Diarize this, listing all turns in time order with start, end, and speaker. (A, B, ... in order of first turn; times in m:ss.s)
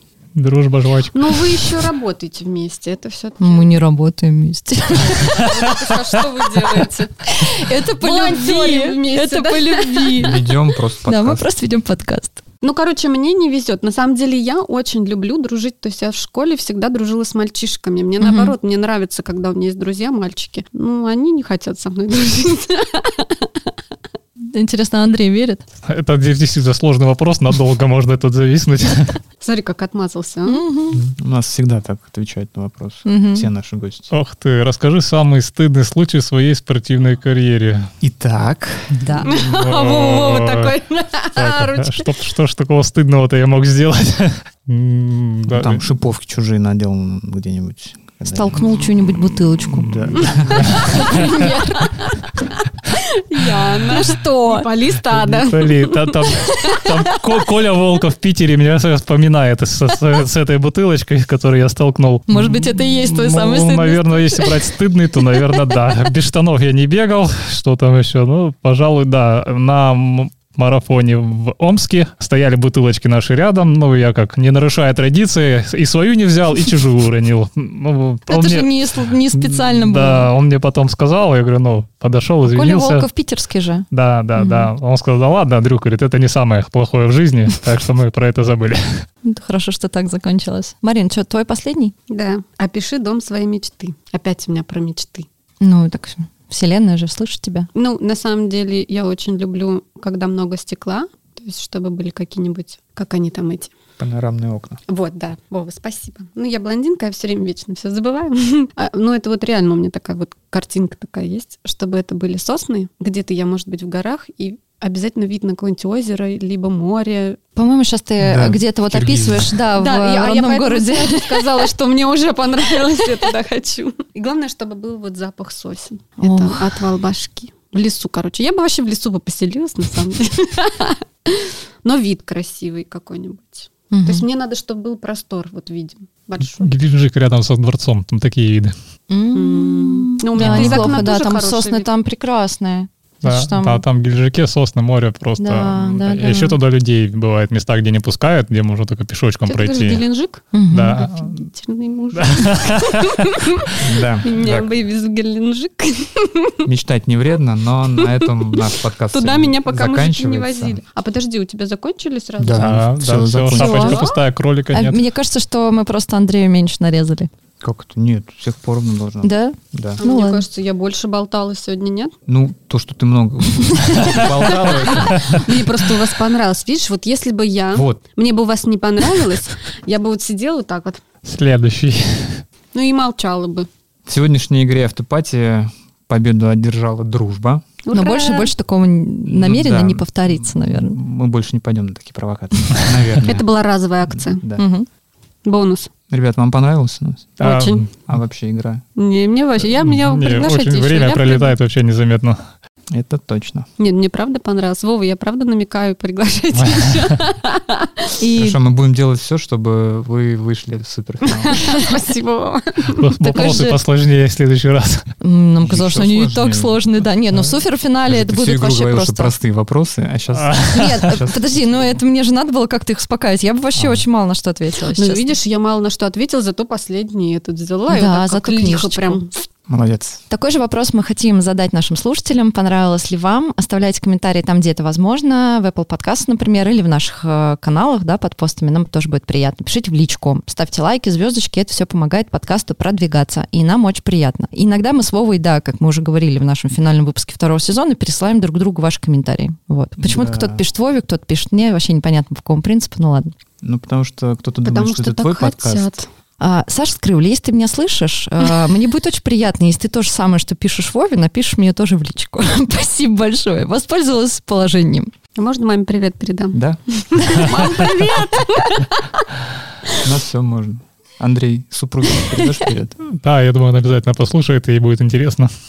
0:00.4-0:01.6 A
0:01.1-0:03.7 B
0:03.4-0:05.4 C
0:04.9-0:07.1 B
0:07.3-0:10.4 C
0:08.0-0:10.3 B
0:10.2-0:11.5 D
0:11.0-0:12.4 C
0:12.6-0:23.5 B
0:18.2-0:18.5 C
0:24.4-0:25.6 C
0:25.8-0:29.2 A
0:29.4-0:30.6 B
0:30.4-0:31.0 C
0:31.2-0:34.1 D
0:33.0-0:33.5 C
0:34.1-0:37.9 A
0:38.0-0:39.1 D
0:39.0-0:39.3 C
0:39.2-0:42.1 B
0:39.4-0:40.7 A
0:41.3-0:45.8 A
0:45.5-0:48.7 D
0:48.3-0:50.0 C
0:49.7-0:51.1 D
0:49.8-0:51.3 A
0:50.8-0:52.1 B
0:51.1-0:51.5 C
0:52.9-0:56.9 B
0:54.0-0:54.7 C
0:55.1-1:23.1 A
1:02.3-1:04.4 C
1:18.3-1:20.3 C
1:22.4-1:24.7 C
1:23.9-1:29.0 A
1:29.2-1:31.9 C
1:32.1-1:35.3 B
1:35.6-1:37.7 C
1:37.7-1:43.7 B
1:44.0-1:44.8 D
1:44.9-1:57.4 B
1:57.6-2:01.6 C
1:58.2-1:59.6 D
1:59.7-2:16.7 B
2:06.2-2:06.8 C
2:13.9-2:14.2 C
2:16.6-2:18.7 A
2:19.1-2:23.8 C
2:19.3-2:21.9 B
2:20.4-2:21.0 A
2:23.2-2:30.0 A
2:25.4-2:26.6 C
2:29.4-2:30.4 B
2:30.5-2:31.0 C
2:30.7-2:31.4 A
2:31.0-2:33.7 B
2:32.1-2:33.6 A
2:33.8-2:34.7 D
2:34.2-2:36.6 B
2:36.6-2:40.8 D
2:38.2-2:42.7 B
2:42.4-2:44.0 D
2:42.6-2:45.0 A
2:43.5-2:44.0 C
2:43.6-2:44.2 B
2:44.7-2:47.3 C
2:47.6-2:50.0 D
2:49.2-2:50.4 C
2:50.0-2:52.1 B
2:52.2-2:55.5 D
2:53.7-2:54.0 C
2:53.9-2:55.5 A
2:55.4-3:01.0 B
2:57.7-2:58.0 D
3:01.2-3:02.4 A
3:02.7-3:03.7 B
3:04.0-3:07.6 D
3:07.8-3:08.5 B
3:07.9-3:11.0 C
3:09.2-3:13.5 D
3:13.2-3:14.4 B
3:14.0-3:14.6 D
3:14.6-3:14.9 C
3:15.4-3:15.9 B
3:16.1-3:17.4 D
3:17.4-3:17.9 A
3:17.4-3:17.9 B
3:18.0-3:18.8 D
3:19.0-3:21.5 B
3:19.8-3:22.4 A
3:22.9-3:23.7 D
3:23.8-3:28.1 B
3:26.6-3:27.1 A
3:28.2-3:28.6 C
3:28.4-3:31.6 D
3:31.4-3:33.7 B
3:32.9-3:35.1 A
3:33.3-3:33.8 C
3:35.2-3:39.3 C
3:35.6-3:41.6 D
3:40.3-3:40.9 A
3:40.7-3:45.3 C
3:43.8-3:44.0 D
3:45.0-3:49.4 B
3:47.9-3:49.2 C
3:49.7-3:50.2 D
3:50.3-4:13.3 C
4:10.0-4:10.6 D
4:13.6-4:15.9 D
4:14.6-4:16.0 B
4:16.4-4:25.1 C
4:25.4-4:29.0 B
4:26.5-4:27.4 D
4:30.0-4:33.0 D
4:33.1-4:35.5 A